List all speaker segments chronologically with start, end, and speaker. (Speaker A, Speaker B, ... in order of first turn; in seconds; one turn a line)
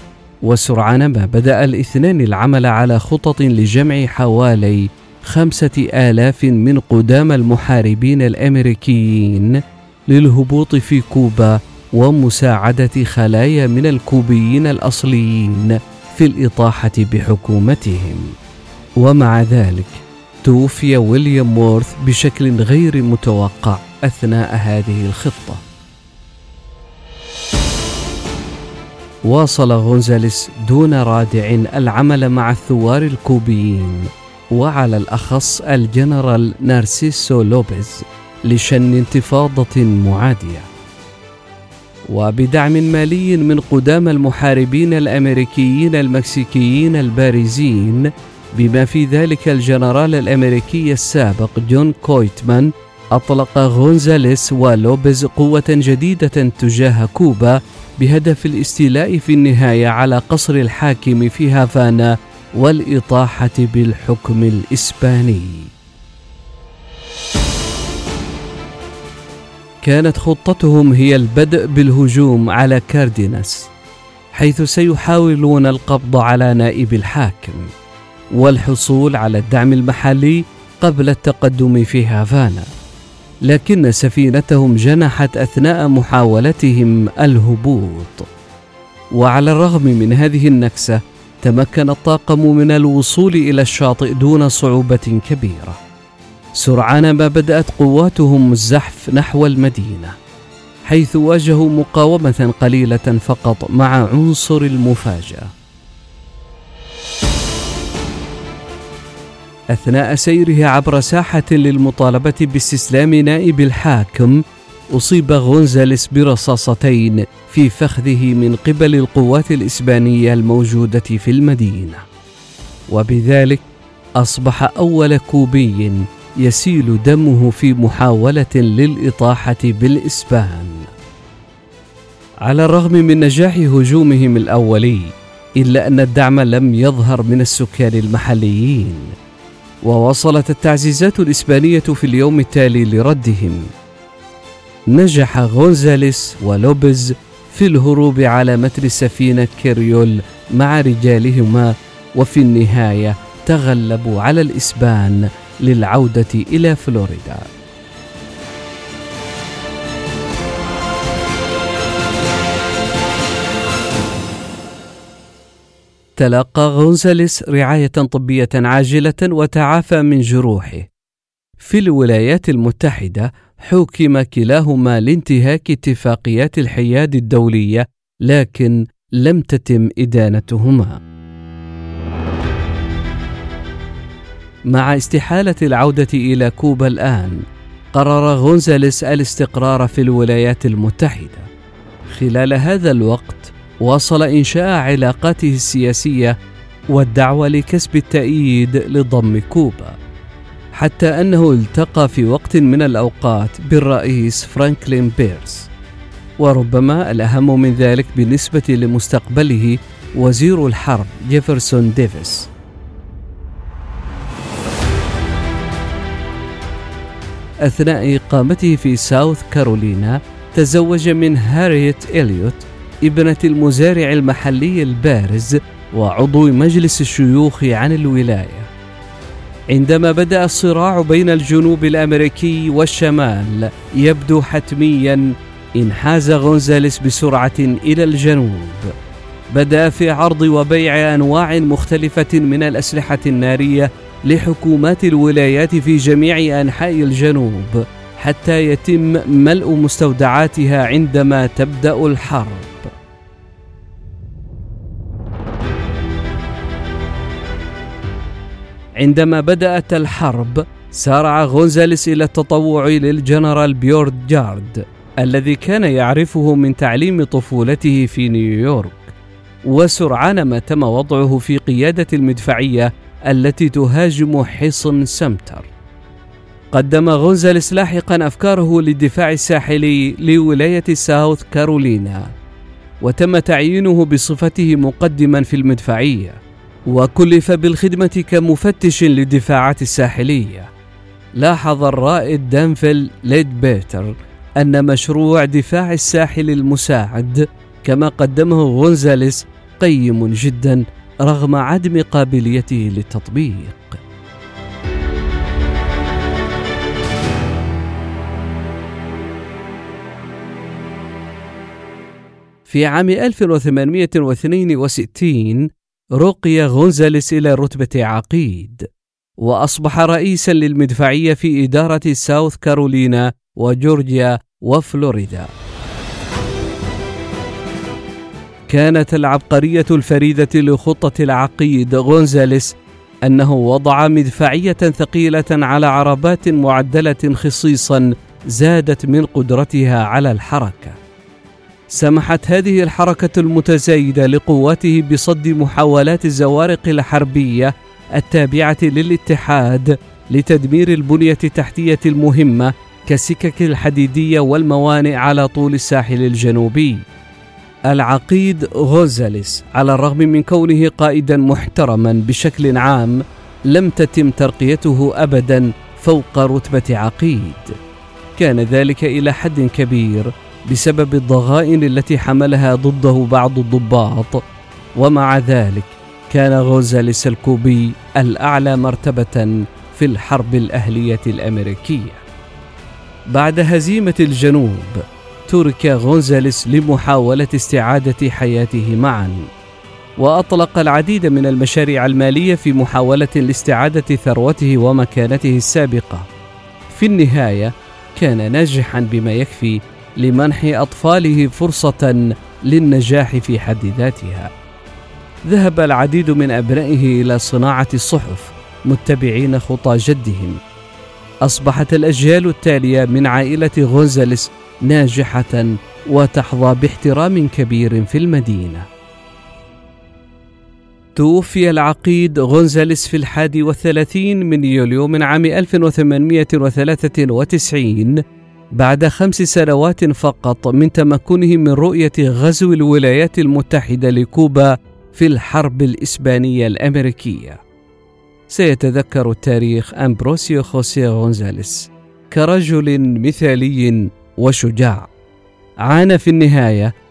Speaker A: 0.4-18.4
Speaker A: 19.0-25.6
Speaker A: 29.2-40.7
Speaker A: 42.1-65.7
Speaker A: 69.8-73.7
Speaker A: 74.3-77.7
Speaker A: 78.3-82.7
Speaker A: 83.5-88.3
Speaker A: 89.1-95.8
Speaker A: 96.6-100.2
Speaker A: 100.9-105.5
Speaker A: 109.7-114.4
Speaker A: 114.9-122.0
Speaker A: 122.9-123.7
Speaker A: 124.2-130.9
Speaker A: 132.4-139.1
Speaker A: 139.8-143.7
Speaker A: 144.9-157.5
Speaker A: 166.2-170.9
Speaker A: 171.6-181.0
Speaker A: 184.7-191.5
Speaker A: 192.1-196.4
Speaker A: 196.9-200.0
Speaker A: 200.7-205.7
Speaker A: 206.4-212.5
Speaker A: 217.7-228.7
Speaker A: 229.7-238.9
Speaker A: 239.5-252.9
Speaker A: 259.0-269.1
Speaker A: 269.7-275.7
Speaker A: 276.7-282.3
Speaker A: 283.0-290.7
Speaker A: 291.4-304.0
Speaker A: 312.7-318.9
Speaker A: 319.4-325.5
Speaker A: 328.7-341.0
Speaker A: 341.9-357.1
Speaker A: 357.9-367.8
Speaker A: 368.4-374.4
Speaker A: 375.0-382.2
Speaker A: 383.3-389.5
Speaker A: 390.2-396.3
Speaker A: 396.9-404.5
Speaker A: 405.5-410.6
Speaker A: 411.4-418.9
Speaker A: 421.1-428.2
Speaker A: 428.7-437.6
Speaker A: 438.5-445.1
Speaker A: 445.9-446.9